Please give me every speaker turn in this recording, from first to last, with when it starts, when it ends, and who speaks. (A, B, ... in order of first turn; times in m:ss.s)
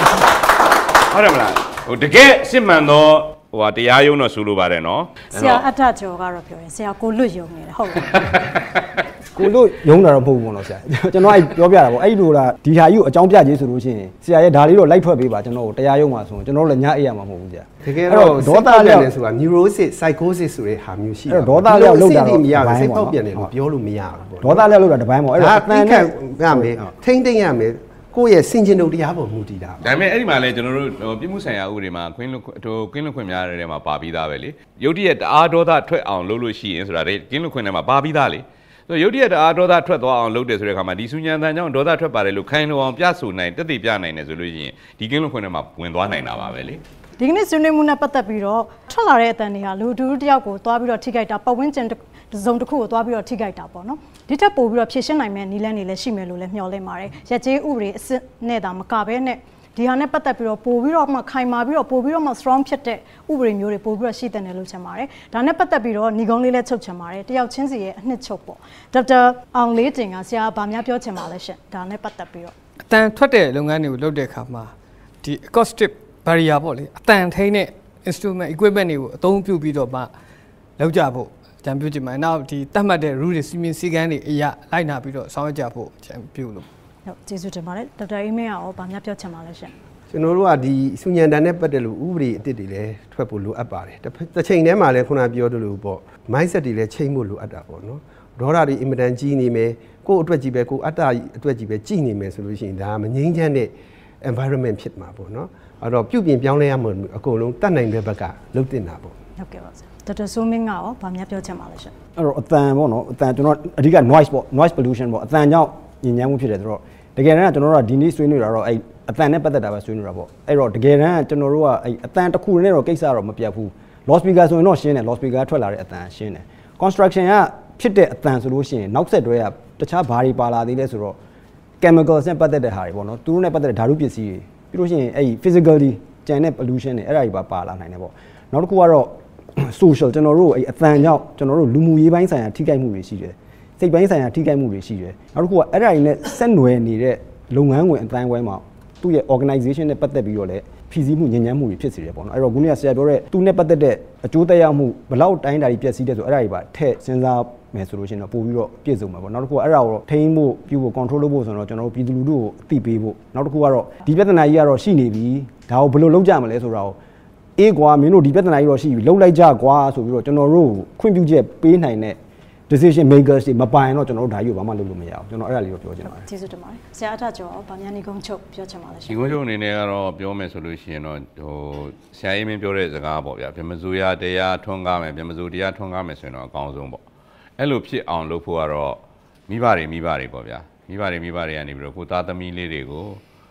0:01.1-0:05.6 A
0:05.3-0:08.1 B
0:09.3-0:19.1 C
0:17.8-0:24.7 D
0:21.3-0:23.5 C
0:24.4-0:26.9 C
0:25.4-0:29.8 D
0:29.8-0:46.8 A
0:47.2-1:12.5 B
1:12.9-1:14.7 E
1:15.2-1:20.1 E
1:20.8-1:26.7 E
1:27.0-1:29.7 B
1:30.1-1:43.7 D
1:44.2-1:49.1 D
1:49.4-1:51.9 B
1:52.2-2:11.2 C
2:11.8-2:47.0 C
2:47.6-2:52.2 C
2:52.7-2:56.3 C
2:56.0-2:59.2 B
2:59.1-3:07.0 A
3:07.6-3:13.2 A